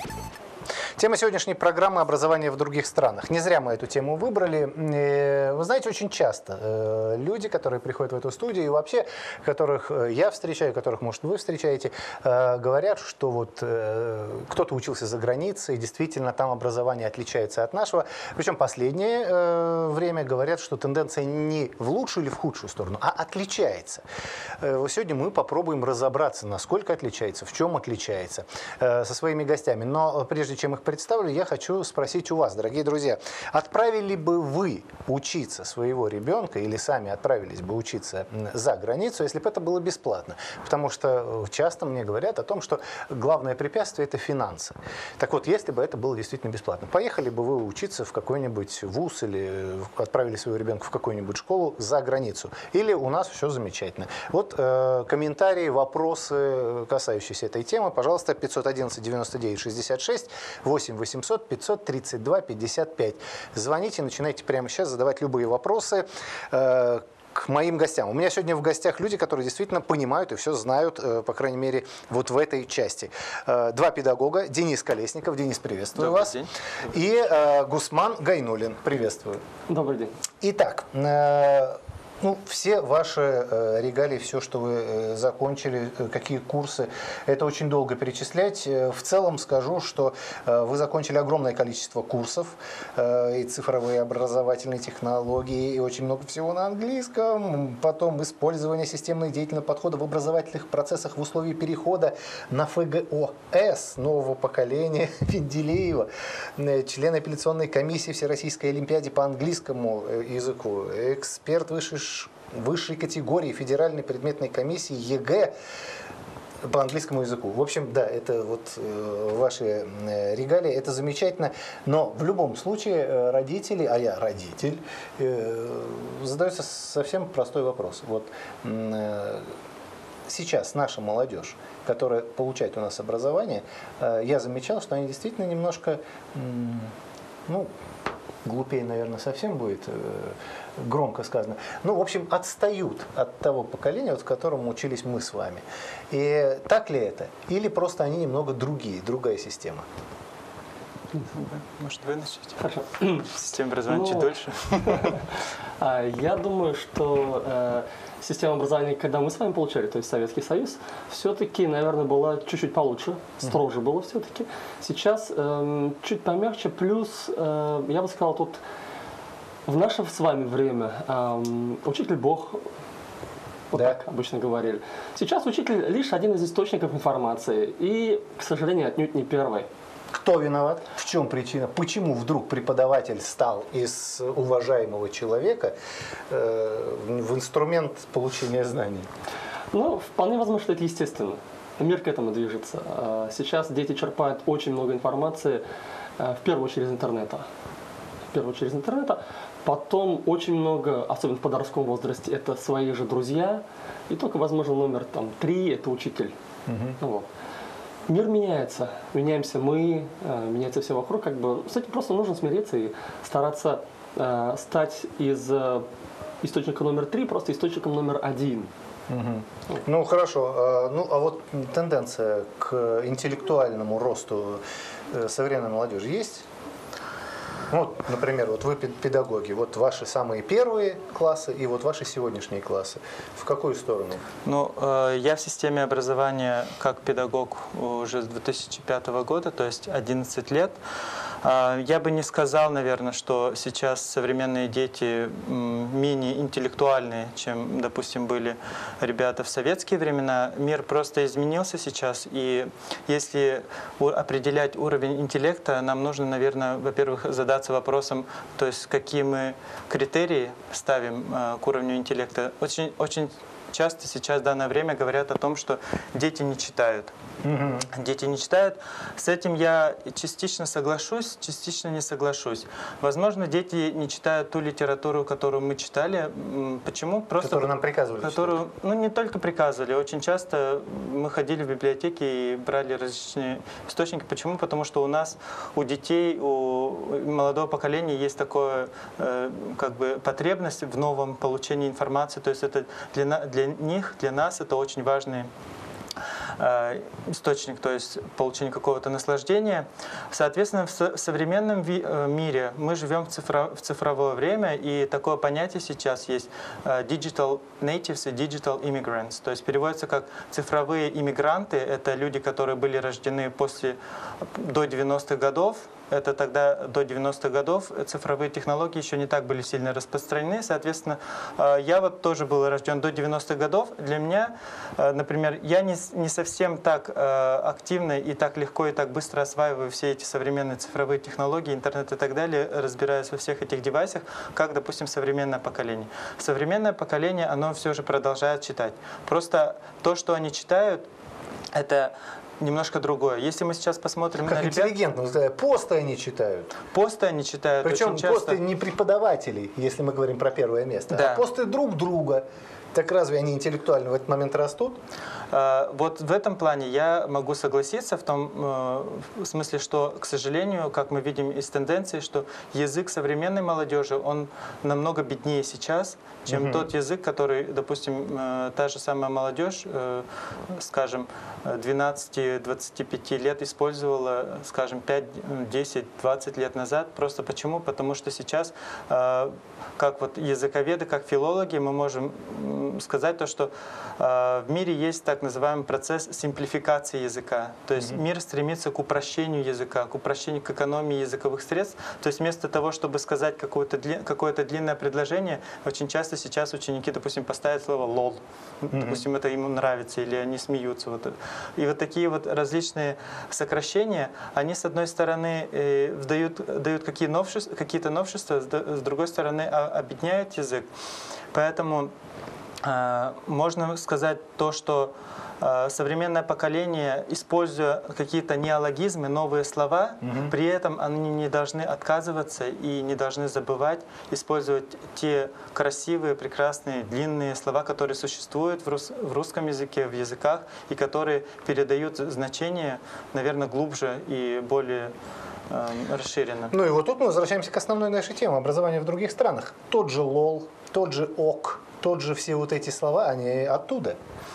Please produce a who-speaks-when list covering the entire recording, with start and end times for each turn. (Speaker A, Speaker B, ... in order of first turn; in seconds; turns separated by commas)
Speaker A: 1.0-24.0, Speaker A: 24.6-79.4, Speaker B: 76.0-76.5, Speaker C: 79.7-80.1, Speaker A: 80.4-115.5, Speaker A: 116.6-129.5, Speaker A: 130.3-136.9, Speaker A: 138.4-149.8, Speaker B: 151.2-152.6, Speaker C: 152.6-153.3, Speaker B: 153.1-155.2, Speaker C: 153.9-168.6, Speaker C: 169.7-172.7, Speaker C: 173.7-179.7, Speaker A: 180.1-185.7, Speaker A: 186.3-189.1, Speaker C: 189.7-195.6, Speaker C: 196.2-197.5, Speaker C: 198.3-206.3, Speaker A: 206.7-207.0, Speaker C: 207.0-207.3, Speaker C: 208.1-215.9, Speaker C: 216.4-218.7, Speaker A: 219.1-226.4, Speaker A: 227.7-234.2, Speaker B: 234.4-240.8, Speaker B: 241.4-267.1, Speaker A: 267.4-267.9, Speaker B: 267.9-277.7, Speaker A: 277.4-278.6, Speaker B: 278.2-295.5, Speaker B: 296.6-341.1, Speaker B: 341.7-344.9, Speaker A: 344.4-346.8, Speaker B: 346.9-348.6, Speaker A: 347.8-355.0, Speaker B: 351.1-351.4, Speaker B: 355.5-410.9, Speaker A: 366.5-366.9, Speaker A: 398.9-399.2, Speaker B: 411.5-412.1, Speaker B: 412.8-435.1, Speaker A: 420.2-420.5, Speaker B: 435.7-436.7, Speaker A: 436.7-444.2